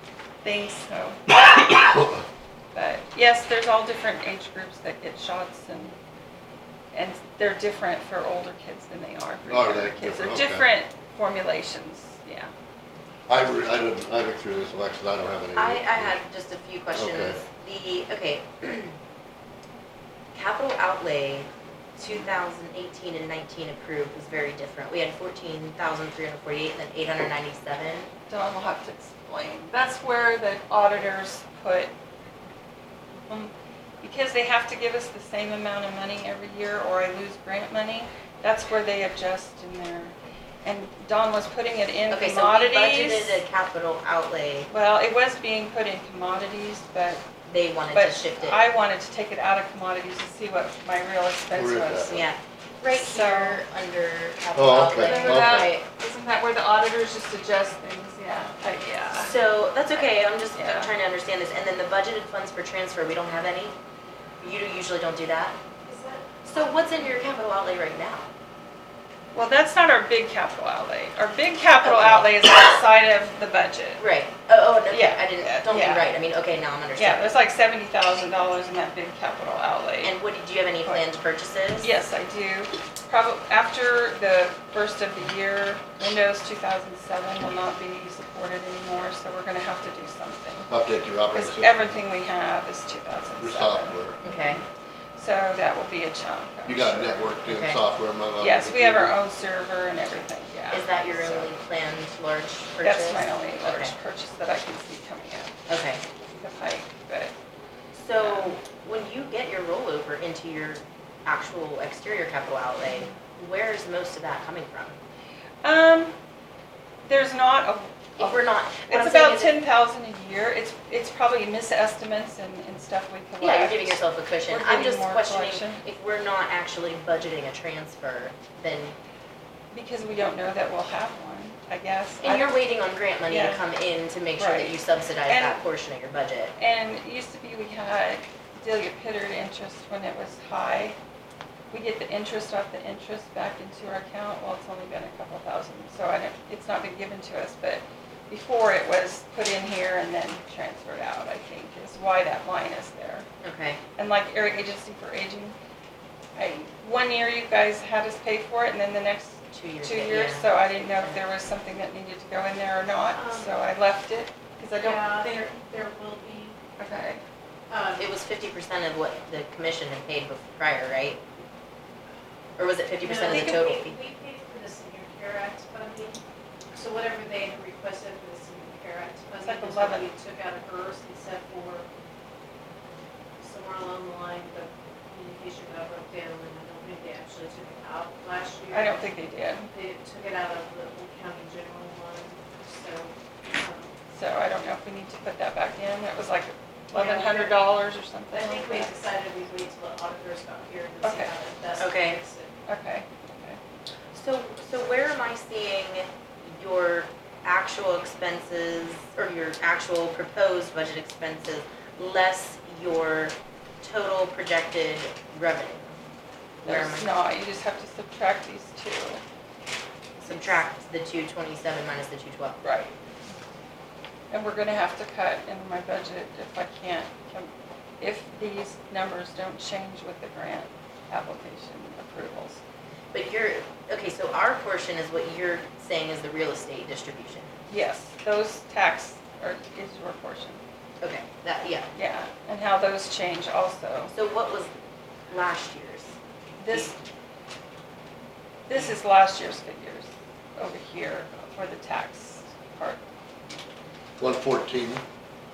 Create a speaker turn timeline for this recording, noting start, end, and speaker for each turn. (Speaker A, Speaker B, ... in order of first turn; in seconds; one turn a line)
Speaker A: 0.4-1.8
Speaker B: 1.8-2.2
Speaker A: 2.7-6.0
Speaker A: 6.9-12.5
Speaker B: 9.5-10.7
Speaker B: 13.3-16.1
Speaker C: 15.5-18.9
Speaker B: 17.0-17.4
Speaker C: 20.3-28.1
Speaker A: 28.3-31.9
Speaker A: 33.3-43.4
Speaker C: 42.1-44.7
Speaker A: 44.7-47.2
Speaker C: 47.5-48.6
Speaker A: 47.9-52.3
Speaker B: 51.5-52.2
Speaker C: 52.1-55.8
Speaker A: 52.9-53.6
Speaker B: 54.5-55.7
Speaker A: 55.0-59.3
Speaker C: 59.1-63.7
Speaker A: 60.5-60.9
Speaker C: 64.4-65.6
Speaker D: 65.8-66.3
Speaker C: 66.4-68.3
Speaker A: 69.3-74.0
Speaker C: 71.8-72.3
Speaker C: 74.0-77.3
Speaker A: 74.9-76.1
Speaker A: 77.0-80.2
Speaker C: 80.0-81.9
Speaker A: 81.8-90.7
Speaker B: 90.7-92.0
Speaker A: 91.3-97.3
Speaker B: 93.4-94.2
Speaker C: 94.2-94.6
Speaker B: 96.7-99.1
Speaker C: 97.5-97.8
Speaker A: 98.4-101.5
Speaker C: 100.7-104.0
Speaker A: 102.8-105.5
Speaker C: 105.7-106.0
Speaker A: 106.3-107.3
Speaker C: 107.9-115.0
Speaker A: 108.2-108.6
Speaker A: 115.6-116.1
Speaker A: 117.0-125.8
Speaker C: 118.2-119.5
Speaker C: 123.4-129.0
Speaker A: 129.7-132.6
Speaker C: 132.2-136.5
Speaker A: 133.3-133.7
Speaker A: 134.4-135.6
Speaker A: 136.6-141.0
Speaker A: 141.7-153.2
Speaker C: 153.4-153.8
Speaker A: 154.0-155.6
Speaker A: 156.4-165.5
Speaker C: 159.5-161.2
Speaker D: 163.1-163.6
Speaker D: 164.8-166.6
Speaker A: 166.8-167.2
Speaker D: 167.7-168.1
Speaker C: 168.0-171.2
Speaker C: 172.6-174.0
Speaker D: 173.0-176.2
Speaker D: 176.7-181.9
Speaker A: 179.4-180.1
Speaker D: 183.4-189.1
Speaker A: 188.7-189.7
Speaker D: 189.7-193.9
Speaker A: 194.1-198.9
Speaker D: 196.9-197.7
Speaker D: 198.3-202.5
Speaker A: 201.0-201.3
Speaker C: 201.8-202.2
Speaker A: 202.7-203.6
Speaker C: 204.1-215.9
Speaker C: 216.6-217.1
Speaker A: 216.7-219.2
Speaker A: 220.2-220.6
Speaker C: 220.2-222.6
Speaker A: 222.6-222.9
Speaker A: 224.3-232.6
Speaker C: 233.1-237.5
Speaker A: 237.7-240.6
Speaker C: 241.0-241.9
Speaker A: 241.9-244.1
Speaker C: 244.1-244.7
Speaker C: 245.3-246.1
Speaker A: 246.6-246.9
Speaker A: 248.7-253.0
Speaker B: 254.2-255.0